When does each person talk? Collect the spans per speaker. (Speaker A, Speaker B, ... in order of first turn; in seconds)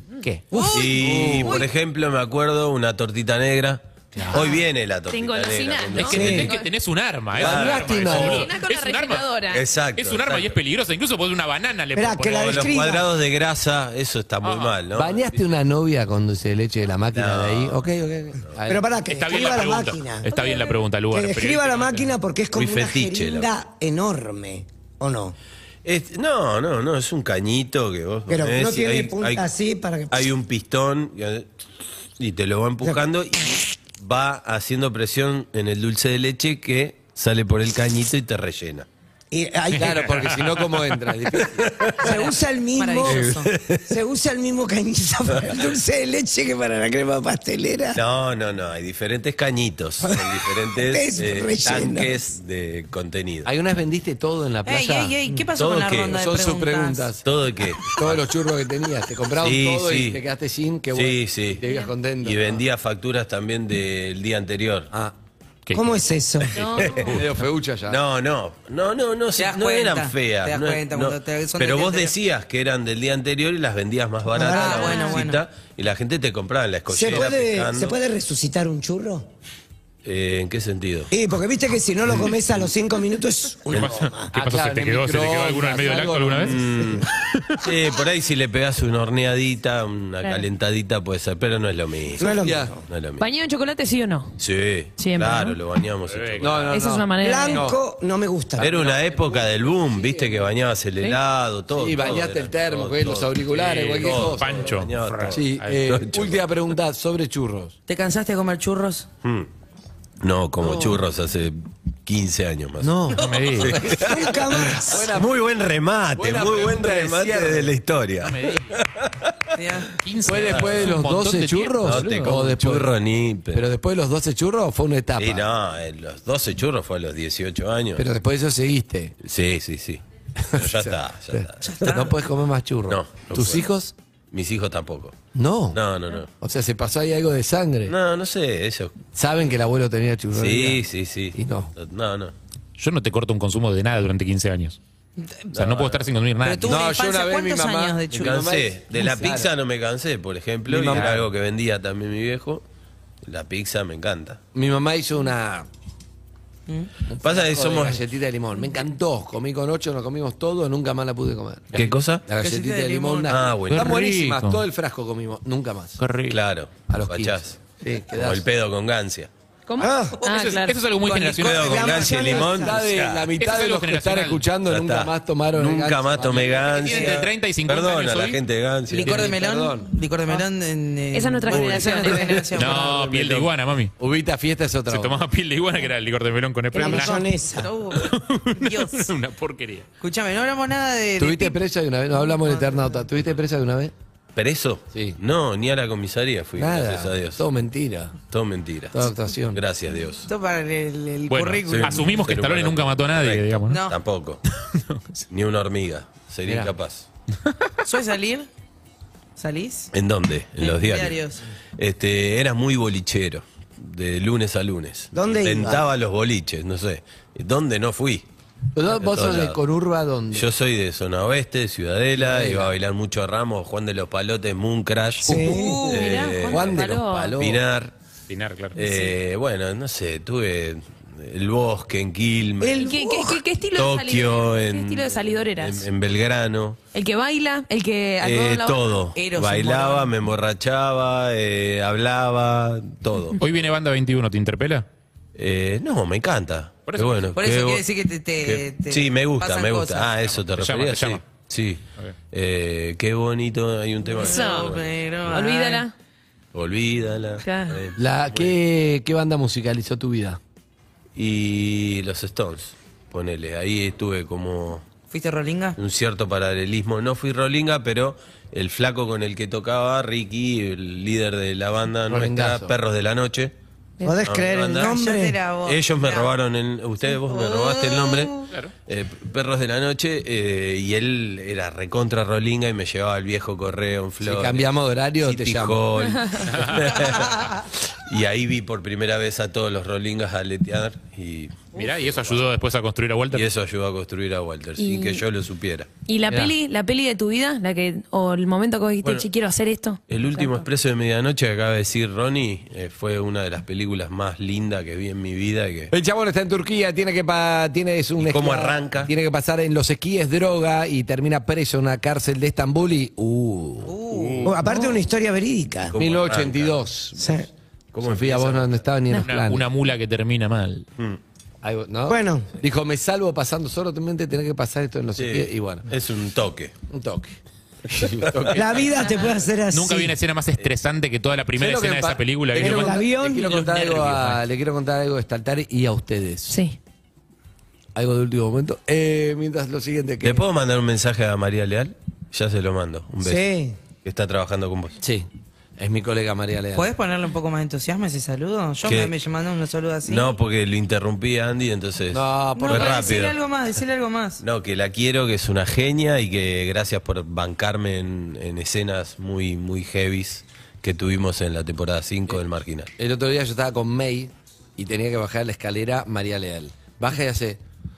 Speaker A: 0.5-1.7, 42.0-43.5, 54.6-57.1, 69.4-72.1, 74.4-75.4, 107.9-109.1, 113.2-113.7, 119.5-119.9, 131.6-132.2, 145.2-145.5, 146.4-148.5, 162.3-163.4, 170.2-172.3, 176.9-177.2, 178.9-183.2, 186.8-189.1, 190.0-191.6, 192.3-193.0, 200.3-202.3, 203.7-203.9, 207.8-208.5, 209.4-209.9, 210.6-211.4, 225.3-226.5, 239.2-240.1, 247.3-250.1, 254.1-255.8, 265.1-265.8, 274.7-276.3, 277.2-278.4, 313.8-314.6, 346.7-350.3, 352.6-354.4
Speaker B: 0.6-6.6, 7.4-8.4, 9.5-10.6, 12.4-15.4, 17.1-17.8, 22.5-23.5, 25.8-29.4, 30.1-31.5, 32.2-38.9, 41.5-42.1, 43.0-43.9, 47.9-53.5, 55.5-56.2, 57.2-58.2, 59.4-60.2, 60.9-61.6, 62.2-64.9, 66.7-67.2, 67.9-78.0, 80.0-81.1, 86.5-87.1, 87.6-92.3, 92.9-93.2, 94.4-96.7, 98.6-106.5, 109.2-109.5, 110.2-113.0, 113.6-119.5, 120.3-120.9, 121.8-123.6, 125.2-128.0, 129.2-130.0, 130.5-131.8, 132.9-133.7, 134.3-135.2, 135.7-136.3, 137.9-139.0, 140.3-142.3, 145.5-146.1, 148.2-152.6, 153.2-154.4, 157.2-158.0, 161.7-162.2, 163.3-164.0, 166.3-169.3, 171.4-173.3, 174.7-179.3, 181.8-182.3, 194.3-197.4, 198.3-200.3, 201.7-204.4, 205.3-207.1, 209.9-211.2, 211.8-218.2, 218.9-219.6, 220.3-227.9, 228.8-233.0, 233.7-236.8, 238.2-243.4, 245.3-247.8, 248.4-255.4, 256.5-258.6, 261.1-264.8, 265.8-273.5, 274.2-274.9, 275.6-284.7, 285.2-292.4, 293.3-295.9, 299.0-299.3, 300.1-305.9, 308.2-309.1, 314.1-314.6, 315.9-316.8, 317.9-318.8, 325.2-326.7, 327.9-328.8, 340.2-345.0, 348.8-349.1, 350.1-353.4, 354.4-362.9
Speaker C: 0.9-1.6, 7.3-8.5, 14.9-18.8, 39.8-42.0, 53.4-55.1, 56.1-57.2, 57.8-62.6, 67.0-68.0, 84.3-86.8, 92.3-92.7, 96.4-97.8, 98.6-100.4, 101.7-104.7, 105.3-107.7, 110.6-111.0, 112.8-113.9, 114.6-115.3, 116.2-117.7, 120.2-122.9, 123.5-125.5, 128.0-129.1, 130.4-133.9, 135.3-135.8, 136.4-137.9, 139.1-140.8, 141.3-141.7, 146.7-149.5, 150.7-151.2, 154.5-155.7, 157.1-166.0, 166.9-168.4, 172.3-176.8, 178.9-179.9, 181.6-181.8, 184.0-185.2, 191.2-193.9, 194.9-195.2, 196.6-198.2, 198.9-199.6, 206.5-206.7, 218.7-220.5, 222.2-222.7, 225.2-225.7, 226.4-227.6, 258.0-260.4, 272.1-272.7, 284.2-285.8, 305.9-313.9, 316.0-317.4, 318.0-319.6, 321.6-325.9, 326.9-327.4, 327.9-328.6, 331.6-336.6, 337.9-340.4, 345.0-346.9, 352.1-353.1, 363.0-367.6
Speaker D: 4.3-6.7, 8.3-9.7, 20.3-20.7, 66.6-67.1, 74.8-75.1, 93.2-94.3, 95.0-95.6, 96.7-97.6, 169.7-170.8, 181.1-182.6, 225.5-227.4, 228.8-229.1, 232.7-235.9, 236.9-239.0, 254.2-254.8, 255.3-255.9, 257.4-257.8, 274.0-274.2, 286.1-286.4, 294.8-295.2, 296.1-300.6, 314.6-315.0, 336.5-336.8
Speaker E: 5.9-9.3, 9.9-12.7, 14.4-14.7, 19.1-22.1, 40.0-40.6, 83.7-86.6, 96.1-96.7, 103.5-105.9, 113.2-113.8, 118.2-118.8, 120.0-122.3, 142.8-144.8, 145.5-146.8, 150.9-151.2, 163.7-164.6, 166.0-166.4, 170.5-172.1, 173.4-174.4, 176.7-178.4, 182.5-183.9, 184.9-189.8, 201.3-203.8, 204.6-205.2, 228.3-228.8, 243.4-244.8, 246.9-247.3, 250.3-251.2, 286.4-287.3, 291.7-293.5, 319.1-320.9, 329.7-334.4
Speaker F: 6.1-6.5, 11.9-13.1, 18.7-20.6, 21.1-25.4, 28.3-30.3, 39.3-40.1, 42.0-48.0, 50.0-52.1, 65.7-66.8, 74.3-74.9, 76.9-79.3, 81.1-84.3, 92.2-92.8, 97.2-98.7, 113.9-115.1, 169.8-170.2, 171.4-172.8, 186.7-187.7, 215.1-215.9, 225.2-225.8, 232.6-233.4, 274.0-275.4, 314.4-315.9, 317.2-317.5, 322.1-322.5, 328.5-330.1, 332.6-333.5, 343.2-343.8